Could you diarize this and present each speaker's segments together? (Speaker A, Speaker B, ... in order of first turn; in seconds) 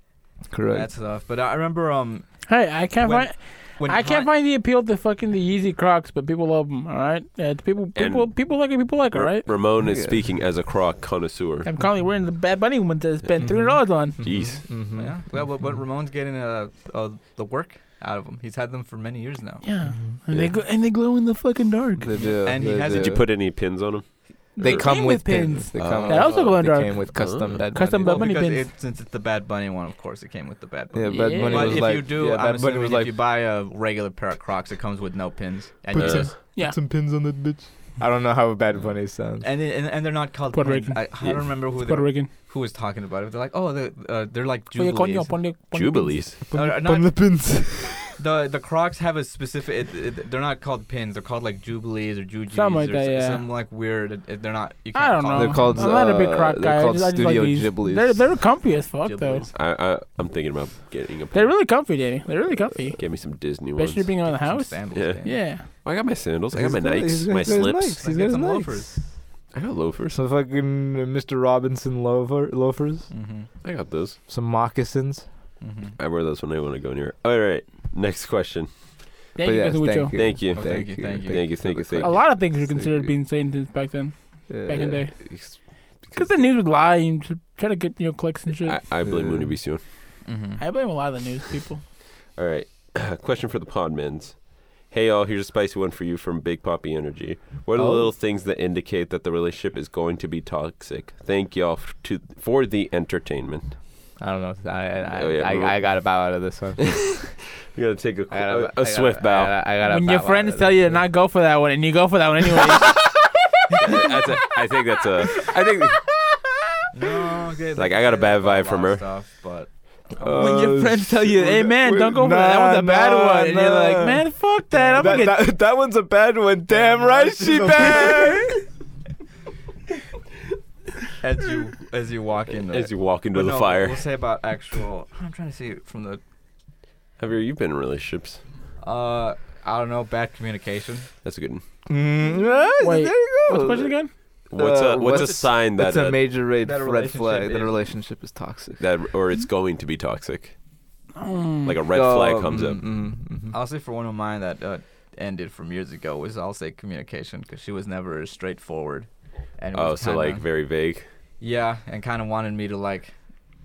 Speaker A: 0.5-0.9, 9.8-10.2, 13.4-15.1, 22.0-23.2, 24.6-28.3, 30.9-33.2, 35.9-39.5, 46.4-48.0, 55.3-58.3, 66.5-69.1, 70.1-73.1, 74.3-75.3, 79.4-83.1, 84.5-85.3, 89.0-89.5, 97.8-98.1, 104.2-107.3, 108.3-111.0, 113.8-114.4, 115.9-116.4, 120.2-124.3, 124.9-128.6, 141.9-143.9, 144.5-148.8, 151.9-153.6
Speaker B: 0.7-2.5, 3.0-4.3, 14.9-19.6, 22.1-23.2, 27.9-36.4, 38.8-45.4, 46.5-55.8, 59.0-59.5, 64.2-65.4, 67.6-69.1, 73.1-73.5, 75.6-76.0, 80.5-81.7, 90.2-90.6, 116.9-120.5, 124.7-125.1, 126.7-128.6, 131.2-136.2, 138.8-141.1, 146.6-147.8, 153.5-160.4, 161.4-163.1
Speaker C: 2.5-9.4, 11.6-14.2, 19.6-22.2, 24.6-28.7, 31.1-31.9, 36.5-36.8, 40.5-42.3, 44.7-46.2, 52.5-53.4, 54.9-59.4, 61.3-65.7, 79.3-80.2, 82.0-88.8, 90.6-91.8, 109.8-113.0, 120.3-125.4, 142.8-144.1, 151.2-151.7
Speaker D: 8.0-11.7, 14.2-14.7, 22.6-24.9, 25.8-26.5, 27.1-27.6, 35.9-36.3, 45.7-46.4, 59.5-61.6, 62.9-64.1, 64.9-68.0, 69.5-70.2, 73.6-74.2, 76.0-78.7, 80.1-82.3, 85.3-86.4, 88.6-89.8, 92.3-103.7, 105.1-106.2, 106.8-109.5, 113.8-116.1, 117.8-119.0, 132.7-134.0, 137.2-138.4, 141.2-141.6, 144.5-146.2, 148.8-150.6, 151.6-152.8, 159.7-161.1